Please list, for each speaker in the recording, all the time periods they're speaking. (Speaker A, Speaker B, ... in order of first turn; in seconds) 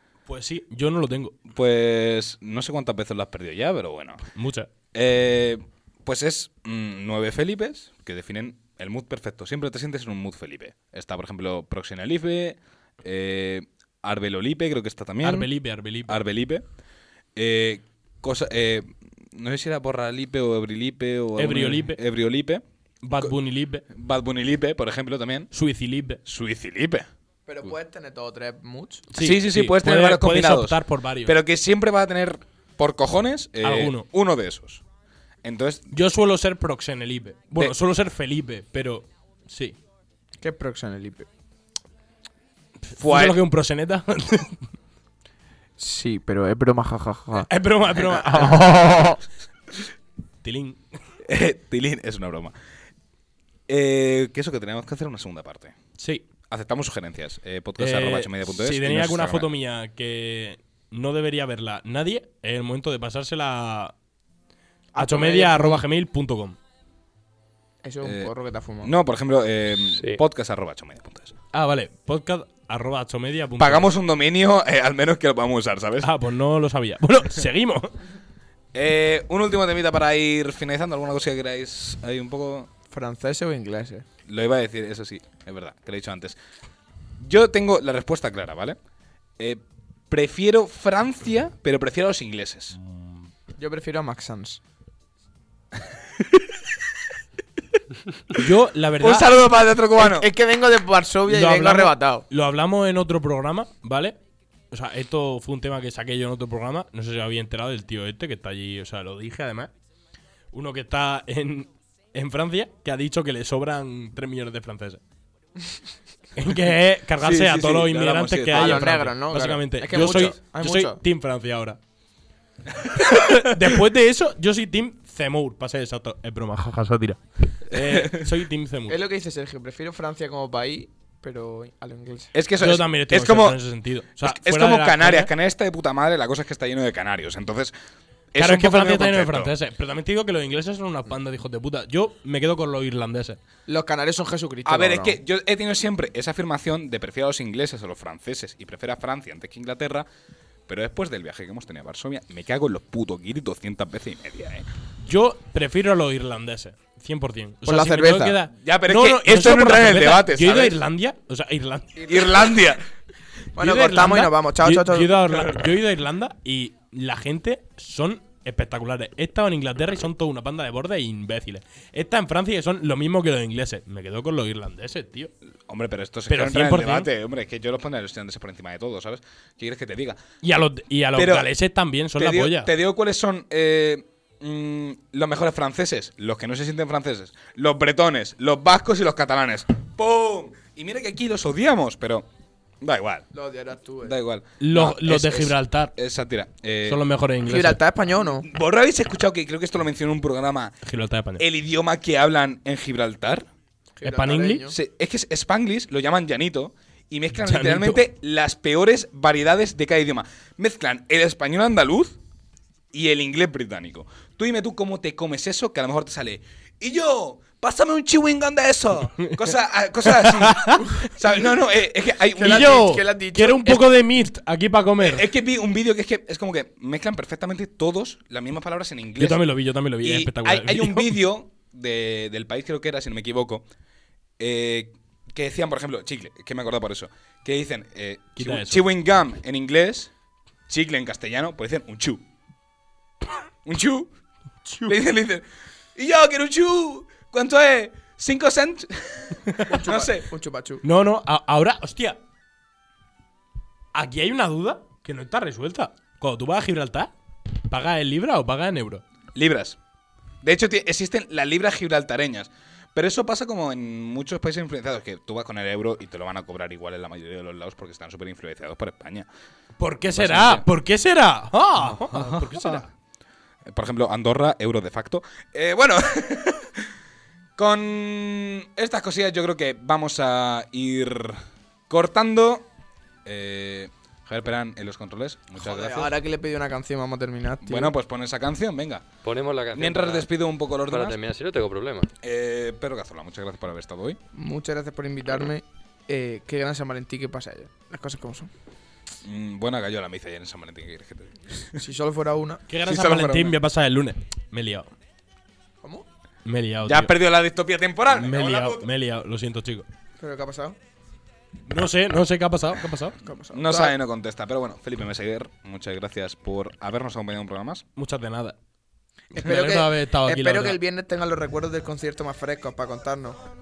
Speaker A: 0.3-1.4, 4.3-4.7, 15.2-16.2, 21.4-22.0, 23.0-23.9, 25.5-26.2, 29.1-31.3, 33.6-34.1, 35.9-39.8, 42.9-44.7, 47.4-49.1, 50.4-50.8, 56.0-56.3, 57.8-63.9, 65.0-66.6, 71.5-73.9, 76.0-78.0, 98.3-99.3, 101.3-104.2, 104.7-109.7, 110.5-115.0, 116.4-121.8, 123.0-129.0, 132.6-135.3, 138.4-143.4, 155.1-162.6, 163.6-175.3, 176.3-177.1, 180.4-182.7, 194.6-195.9, 196.9-197.8, 200.8-201.4, 204.0-204.7, 207.4-208.0, 220.1-220.9, 222.4-225.3, 229.2-231.2, 238.4-238.9, 244.7-245.0, 250.8-252.2, 253.9-257.1, 257.7-259.0, 269.8-272.9, 302.7-304.9, 306.4-307.1, 308.1-309.9, 311.7-313.1, 318.0-318.6, 319.4-320.8
Speaker B: 1.5-4.2, 4.9-15.5, 16.1-16.6, 17.4-22.6, 23.9-25.5, 26.2-27.1, 29.2-34.8, 35.4-35.8, 43.0-43.4, 51.3-52.5, 53.7-55.8, 56.5-59.5, 68.0-68.3, 68.8-71.3, 73.6-76.1, 78.7-82.7, 84.3-86.4, 87.2-88.8, 89.4-92.8, 99.0-100.3, 117.2-119.0, 127.7-128.3, 132.3-133.6, 134.2-137.7, 138.3-139.5, 144.7-150.1, 150.7-154.7, 158.6-160.8, 162.0-162.8, 175.7-180.2, 181.2-181.5, 182.2-192.3, 192.8-193.3, 194.0-197.0, 198.4-200.8, 201.4-203.5, 204.7-212.2, 212.9-222.8, 225.0-229.5, 230.0-233.7, 234.4-240.1, 240.7-242.2, 243.7-244.1, 244.9-250.3, 259.4-259.8, 260.4-269.3, 270.1-270.6, 271.9-272.9, 273.7-276.8, 277.6-282.7, 283.2-286.1, 287.6-289.1, 289.8-291.2, 292.2-294.2, 299.2-301.8, 302.9-303.4, 306.9-308.9, 313.5-317.9
Speaker C: 27.5-29.1, 40.4-41.3, 45.8-49.2, 64.9-65.8, 67.8-68.9, 82.9-84.0, 93.6-94.6, 100.0-102.2, 118.5-121.0, 128.9-132.3, 143.7-145.2, 157.6-158.4, 163.6-165.4, 193.3-194.2, 197.4-198.5, 204.0-204.8, 222.3-223.9, 249.7-250.8, 285.6-287.9, 294.3-298.5, 301.8-303.5, 310.2-310.8, 313.2-314.0, 319.3-323.4
Speaker D: 289.2-290.3, 290.9-292.1